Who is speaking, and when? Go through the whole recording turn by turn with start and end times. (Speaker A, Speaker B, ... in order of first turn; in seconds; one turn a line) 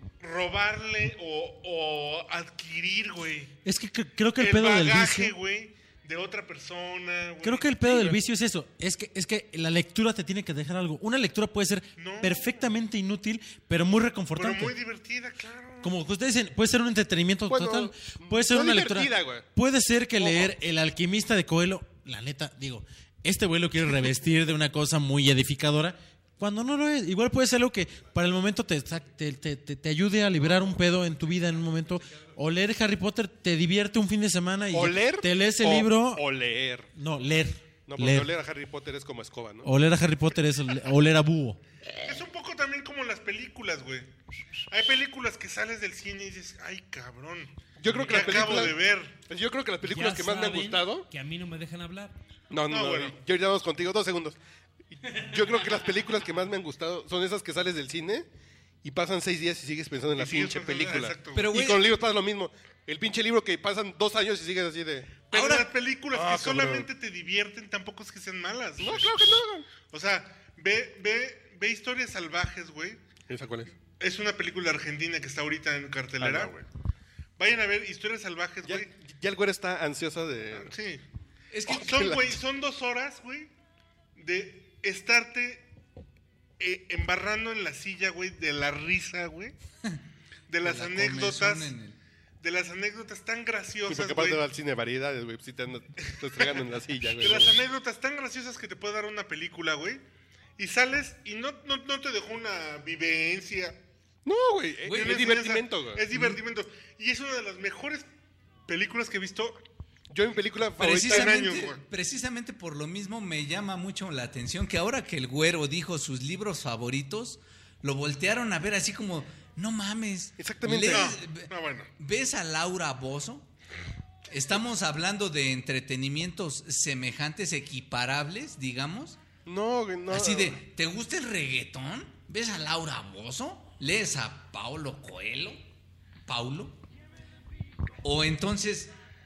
Speaker A: 0.2-3.5
Speaker B: 3.6-5.3
Speaker A: 4.4-8.2
Speaker B: 7.4-14.8
Speaker A: 12.0-12.5
Speaker A: 14.4-15.9
Speaker B: 15.8-36.2
Speaker C: 17.5-19.4
Speaker C: 20.2-20.5
Speaker C: 34.7-36.9
Speaker B: 36.9-38.3
Speaker C: 37.9-39.7
Speaker B: 39.6-41.6
Speaker A: 42.0-44.1
Speaker A: 44.7-49.1
Speaker C: 47.8-51.0
Speaker D: 49.9-52.1
Speaker C: 52.5-54.4
Speaker A: 52.7-53.1
Speaker C: 54.9-58.2
Speaker C: 58.8-65.3
Speaker A: 60.1-61.5
Speaker E: 61.3-61.9
Speaker E: 65.3-65.7
Speaker A: 65.3-73.0
Speaker C: 66.1-66.9
Speaker C: 68.8-69.7
Speaker C: 73.3-73.7
Speaker A: 73.9-76.5
Speaker C: 76.2-76.7
Speaker A: 77.4-78.9
Speaker C: 78.7-80.7
Speaker A: 80.5-81.0
Speaker E: 81.5-81.9
Speaker A: 81.7-83.5
Speaker C: 81.7-82.4
Speaker A: 84.2-85.7
Speaker A: 86.6-89.5
Speaker A: 90.5-91.7
Speaker E: 90.6-92.0
Speaker A: 92.4-94.4
Speaker C: 93.9-97.6
Speaker A: 96.3-96.6
Speaker A: 97.2-100.0
Speaker A: 100.6-103.8
Speaker C: 104.2-106.0
Speaker E: 104.8-105.3
Speaker A: 104.9-108.1
Speaker A: 108.7-109.6
Speaker C: 110.1-111.6
Speaker E: 110.8-123.5
Speaker A: 111.0-111.8
Speaker C: 120.4-121.2
Speaker A: 120.9-121.9
Speaker E: 124.3-129.2
Speaker C: 129.5-130.6
Speaker E: 130.1-135.6
Speaker E: 136.2-136.8
Speaker E: 138.0-138.9